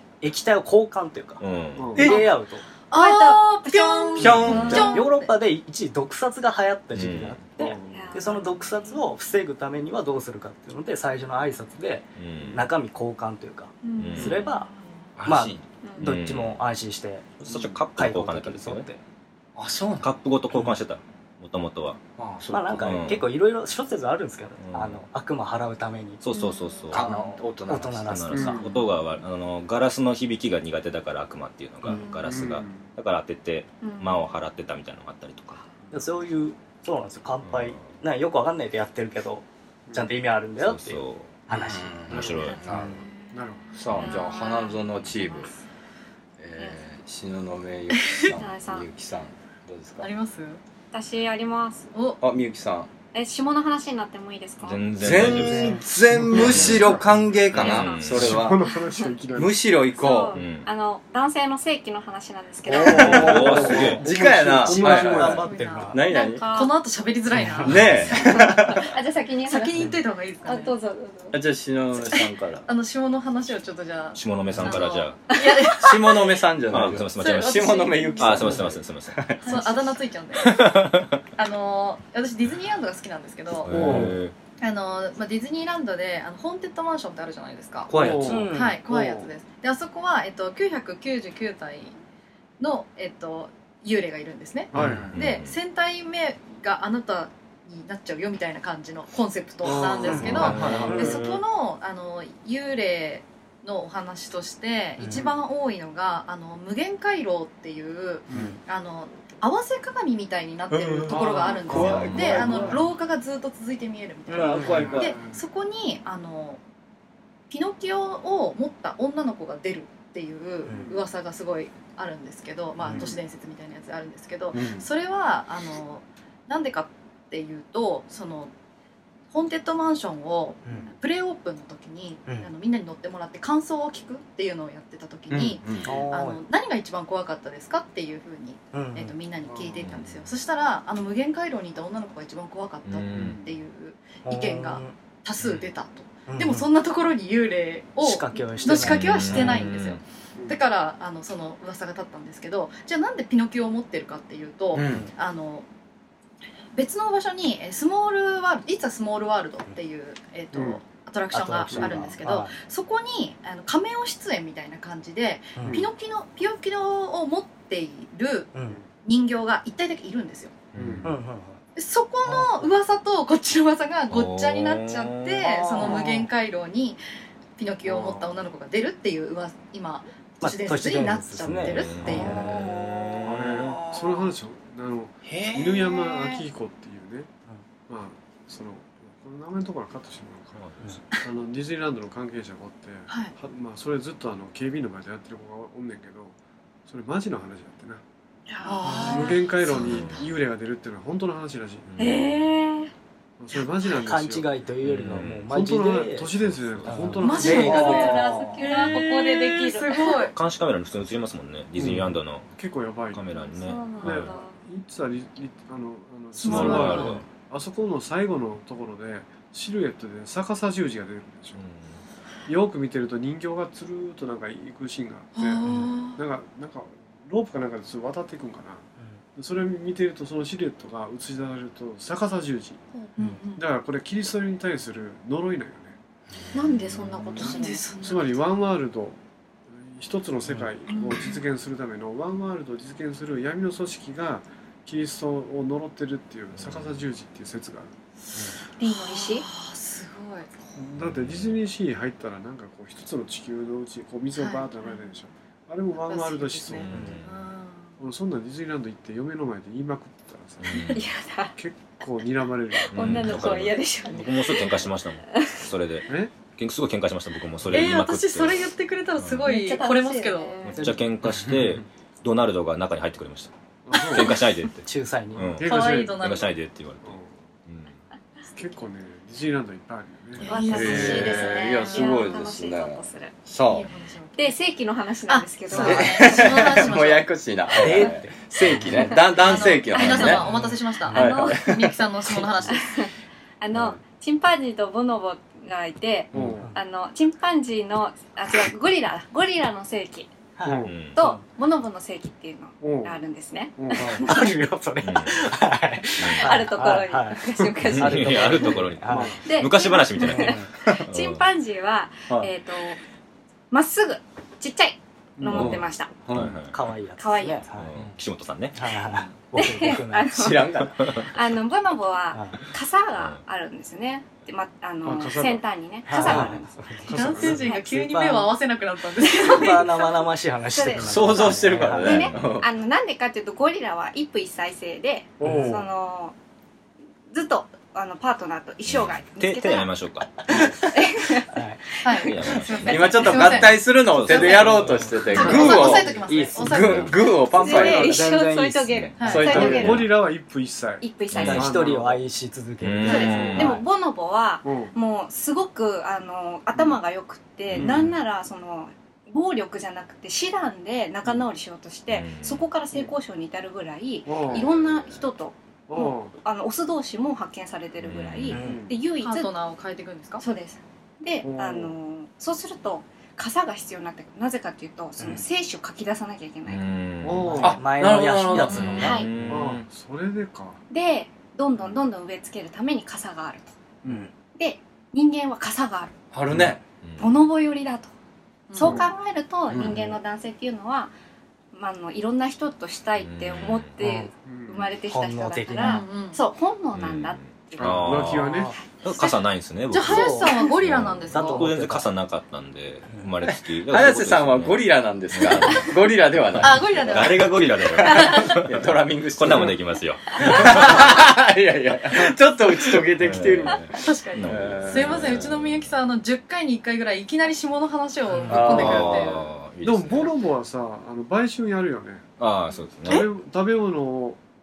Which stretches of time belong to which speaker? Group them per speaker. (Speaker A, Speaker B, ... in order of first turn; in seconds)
Speaker A: 0.2-1.4, 1.9-2.6, 4.5-14.7, 15.2-19.0, 22.5-26.2, 26.9-28.6, 35.9-42.2, 55.4-55.8, 63.0-66.0, 67.3-67.8, 88.2-88.8, 99.8-101.2, 105.0-105.3, 108.3-108.6, 111.5-112.8, 114.3-115.1, 120.6-120.9, 122.8-123.1, 135.8-136.4, 138.7-139.1, 144.2-145.0, 146.3-146.7, 148.0-149.7, 161.3-162.6, 165.6-165.8, 168.5-168.8, 171.0-171.6, 172.2-172.7, 175.8-176.2, 180.4-182.7, 198.8-199.3, 204.0-206.3, 206.8-208.6, 216.7-217.2, 225.6-225.9, 270.7-271.0, 274.8-275.5, 285.7-286.2, 287.8-289.1, 290.4-291.2, 300.6-301.4, 304.0-307.4, 308.0-309.4, 310.2-310.6, 316.7-317.9, 318.7-321.2, 322.3-322.6, 326.1-328.6, 329.4-332.3, 335.4-335.8, 341.5-341.8, 344.6-350.0, 351.3-353.8, 368.5-368.8, 375.2-375.4, 377.4-379.2, 394.0-394.3, 395.1-396.0, 398.3-398.8, 400.1-400.5, 401.3-402.1, 418.3-418.9
Speaker B: 1.4-1.9, 6.9-7.4, 12.2-12.7, 14.0-14.4, 15.2-16.6, 17.4-18.9, 20.0-22.0, 22.8-23.3, 24.6-25.0, 26.2-27.1, 28.0-35.6, 37.4-37.8, 40.6-41.4, 42.1-42.6, 54.6-57.0, 57.5-58.5, 60.3-60.7, 62.8-64.0, 74.2-75.2, 76.7-79.3, 80.3-81.2, 83.6-84.3, 95.1-95.5, 100.1-101.2, 139.8-140.3, 142.8-143.4, 148.7-150.0, 170.7-171.1, 174.1-175.9, 181.4-183.7, 190.6-190.9, 199.8-200.2, 201.9-202.3, 204.8-205.5, 206.4-207.2, 210.3-212.5, 213.1-214.3, 216.4-217.2, 221.6-222.0, 246.6-247.0, 251.0-251.6, 256.7-257.4, 260.6-261.1, 262.9-269.5, 270.6-277.9, 300.8-301.2, 305.0-305.4, 306.2-306.5, 307.9-311.4, 316.3-316.8, 317.8-318.8, 338.8-340.4, 342.2-345.6, 348.9-349.1, 351.3-351.7, 352.8-353.8, 357.7-358.1, 362.1-362.6, 364.5-365.2, 368.0-368.6, 376.7-377.6, 379.1-379.8, 386.6-387.3, 393.2-393.9, 396.9-405.9, 407.0-411.1, 413.1-415.9, 418.5-420.3, 422.4-423.3
Speaker C: 1.8-2.2, 7.6-8.2, 28.3-28.9, 31.9-32.9, 43.3-43.7, 56.2-57.0, 58.1-59.6, 62.8-65.5, 83.7-84.1, 87.9-89.3, 94.7-95.1, 99.8-101.2, 111.1-112.8, 114.6-115.4, 122.8-123.2, 139.4-139.9, 143.1-143.5, 160.5-160.8, 161.7-162.0, 165.7-165.9, 170.8-171.1, 177.8-178.4, 183.2-187.3, 187.9-190.7, 191.2-196.3, 196.9-198.0, 198.9-201.9, 203.4-204.5, 205.5-208.1, 211.8-213.3, 214.0-221.6, 222.5-228.8, 229.3-232.8, 233.6-236.0, 237.4-239.2, 239.8-247.9, 250.8-257.0, 258.0-261.0, 261.6-263.5, 266.1-266.3, 273.9-274.4, 275.6-276.2, 277.0-277.4, 278.5-281.1, 296.3-296.7, 300.6-300.9, 302.8-303.2, 303.8-304.2, 309.1-309.4, 315.4-315.7, 325.0-325.6, 327.1-327.8, 335.4-335.9, 349.3-352.2, 353.1-353.7, 354.6-354.9, 357.7-358.1, 364.2-364.7, 365.9-366.3, 368.6-369.0, 371.4-371.9, 377.2-377.8, 379.5-380.8, 384.0-384.3, 388.8-389.1, 389.7-390.1, 394.4-394.9, 397.8-398.7, 419.8-422.2, 423.1-424.4
Speaker D: 1.9-2.3, 4.2-5.0, 15.2-15.6, 19.6-20.8, 22.2-23.1, 26.9-28.1, 41.5-43.0, 43.7-45.5, 46.4-50.1, 52.2-52.9, 55.0-58.6, 59.3-60.4, 62.7-66.4, 67.6-68.9, 71.3-72.7, 75.8-79.6, 83.8-84.1, 87.9-88.5, 94.8-95.1, 99.7-101.1, 110.7-112.8, 114.3-115.1, 124.5-124.8, 135.3-135.9, 154.7-155.1, 280.7-283.9, 285.8-290.5, 291.1-291.9, 315.5-316.6, 320.3-320.9, 326.2-326.6, 331.0-332.7, 342.9-348.2, 349.3-350.1, 377.6-379.0, 386.3-386.8, 403.5-407.3, 408.5-409.8, 410.4-413.9, 414.4-415.2, 418.5-419.2
Speaker E: 2.9-5.3, 43.2-44.8, 47.9-48.3, 50.0-50.6, 65.3-65.9, 66.5-68.2, 69.4-70.7, 72.1-76.4, 77.2-78.4, 79.4-80.8, 81.3-83.8, 84.6-87.9, 88.5-92.0, 92.6-116.6, 117.5-128.5, 129.3-155.7, 156.7-168.5, 169.0-170.6, 171.8-177.0, 177.6-182.5, 193.1-193.3, 198.5-200.2, 207.2-210.3, 216.4-217.2, 225.3-226.2, 232.9-233.6, 237.4-238.4, 240.9-241.4, 248.8-250.5, 254.3-255.2, 256.0-257.9, 267.7-270.6, 275.6-276.5, 280.4-282.1, 283.6-284.6, 285.3-287.3, 289.3-293.0, 327.1-329.9, 342.0-344.7, 345.2-347.4, 349.2-349.7, 369.2-370.4, 378.7-379.1, 388.7-389.0, 395.8-396.4, 399.1-399.3, 399.9-401.7, 406.6-408.6, 413.9-419.5
Speaker F: 2.9-5.0, 7.9-9.0, 13.8-14.6, 15.8-16.1, 26.3-27.0, 33.8-34.3, 43.9-44.8, 46.6-46.8, 48.3-48.9, 50.9-51.9, 53.1-54.9, 57.5-59.1, 59.9-63.4, 65.4-66.8, 68.1-69.9, 70.4-71.4, 74.6-76.0, 78.0-78.6, 79.5-79.8, 182.5-183.1, 198.6-199.3, 202.0-202.9, 207.4-210.3, 213.3-214.6, 236.5-238.0, 248.8-249.5, 260.9-261.5, 262.7-265.6, 269.4-270.8, 280.4-283.3, 284.4-286.9, 288.9-290.5, 291.1-291.7, 292.6-293.1, 293.6-300.3, 301.1-304.6, 306.3-308.8, 309.4-313.0, 313.7-316.1, 317.2-317.6, 319.5-326.6, 329.2-330.1, 330.7-336.3, 337.3-339.9, 340.5-341.5, 342.0-343.3, 347.5-350.1, 351.0-351.7, 353.1-369.5, 370.4-376.9, 378.7-379.3, 380.9-383.8, 384.5-386.1, 387.2-388.1, 388.7-391.1, 391.7-398.2, 398.7-399.3